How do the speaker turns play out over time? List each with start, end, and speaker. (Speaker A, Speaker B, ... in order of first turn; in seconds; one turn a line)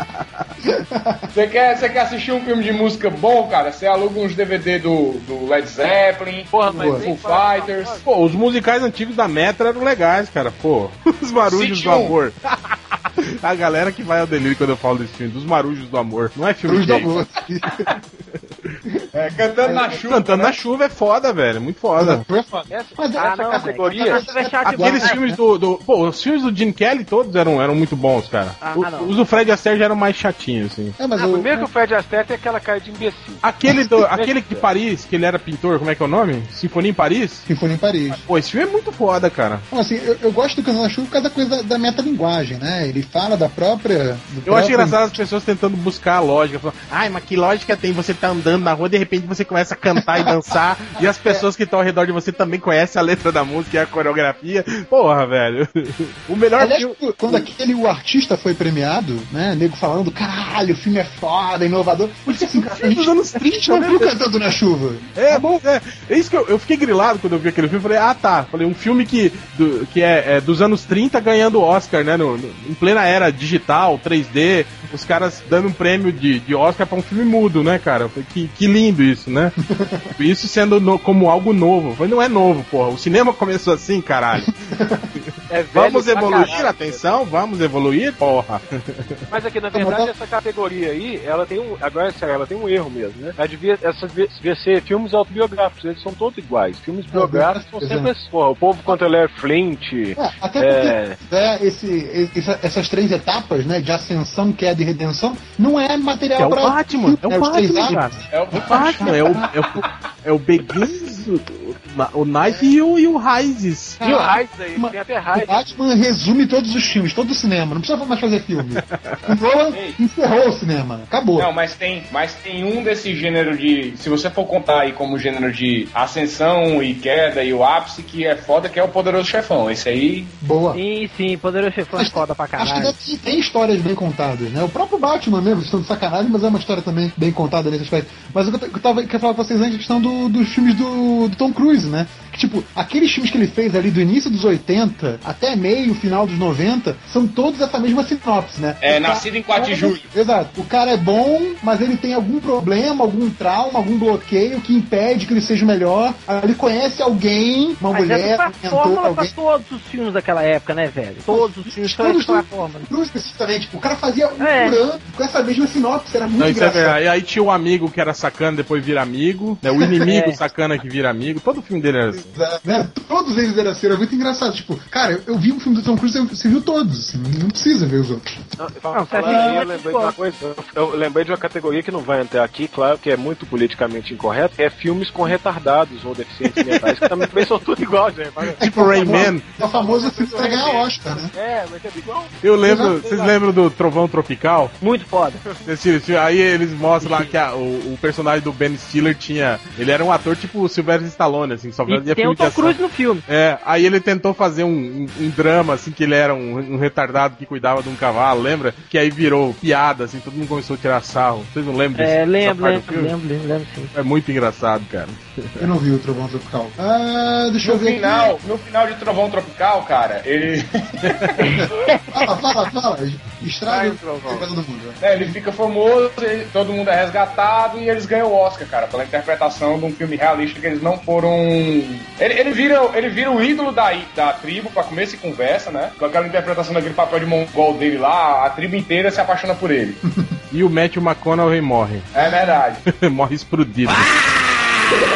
Speaker A: 0.6-1.2
Speaker B: 1.3-8.0
Speaker C: 6.5-8.0
Speaker A: 6.7-7.1
Speaker D: 8.0-17.2
Speaker B: 11.4-12.2
Speaker A: 16.6-17.9
Speaker B: 19.1-20.6
Speaker A: 19.6-20.0
Speaker D: 20.0-22.2
Speaker A: 22.0-25.4
Speaker C: 22.7-24.2
Speaker E: 23.1-25.2
Speaker D: 24.6-31.0
Speaker E: 28.6-29.1
Speaker A: 31.0-31.7
Speaker C: 31.1-33.4
Speaker D: 33.4-37.5
Speaker C: 34.1-34.6
Speaker A: 37.5-38.2
Speaker D: 38.2-39.6
Speaker A: 39.7-45.1
Speaker D: 44.5-57.5
Speaker A: 50.0-51.5
Speaker A: 56.6-65.6
Speaker D: 62.3-64.2
Speaker D: 65.2-79.5
Speaker A: 79.7-80.1
Speaker D: 80.2-84.6
Speaker A: 84.4-85.1
Speaker D: 85.2-89.2
Speaker C: 85.5-87.1
Speaker C: 89.3-101.2
Speaker A: 89.7-90.1
Speaker A: 97.1-98.1
Speaker A: 100.2-109.8
Speaker D: 106.4-114.0
Speaker B: 108.3-109.4
Speaker A: 114.0-121.5
Speaker C: 114.0-115.8
Speaker D: 118.9-119.2
Speaker B: 119.7-120.0
Speaker B: 121.4-130.3
Speaker A: 130.4-130.8
Speaker E: 130.7-132.9
Speaker A: 131.9-159.3
Speaker B: 148.8-150.1
Speaker E: 157.9-162.9
Speaker A: 161.3-167.0
Speaker E: 164.4-164.8
Speaker D: 166.4-172.3
Speaker A: 169.7-170.1
Speaker E: 170.1-170.4
Speaker A: 172.2-178.3
Speaker C: 178.6-193.3
Speaker E: 178.9-180.1
Speaker A: 179.2-179.6
Speaker D: 186.6-187.4
Speaker D: 188.6-189.5
Speaker A: 188.6-191.3
Speaker D: 192.4-194.7
Speaker A: 192.7-193.0
Speaker E: 194.8-195.4
Speaker D: 195.6-213.1
Speaker E: 197.0-197.3
Speaker E: 201.9-203.2
Speaker E: 211.9-213.9
Speaker D: 213.9-215.7
Speaker A: 215.6-218.4
Speaker B: 217.6-221.6
Speaker D: 221.0-221.3
Speaker E: 221.4-222.1
Speaker A: 221.5-225.3
Speaker C: 223.7-224.5
Speaker B: 225.0-240.0
Speaker D: 240.5-242.1
Speaker B: 242.1-242.8
Speaker D: 242.9-244.1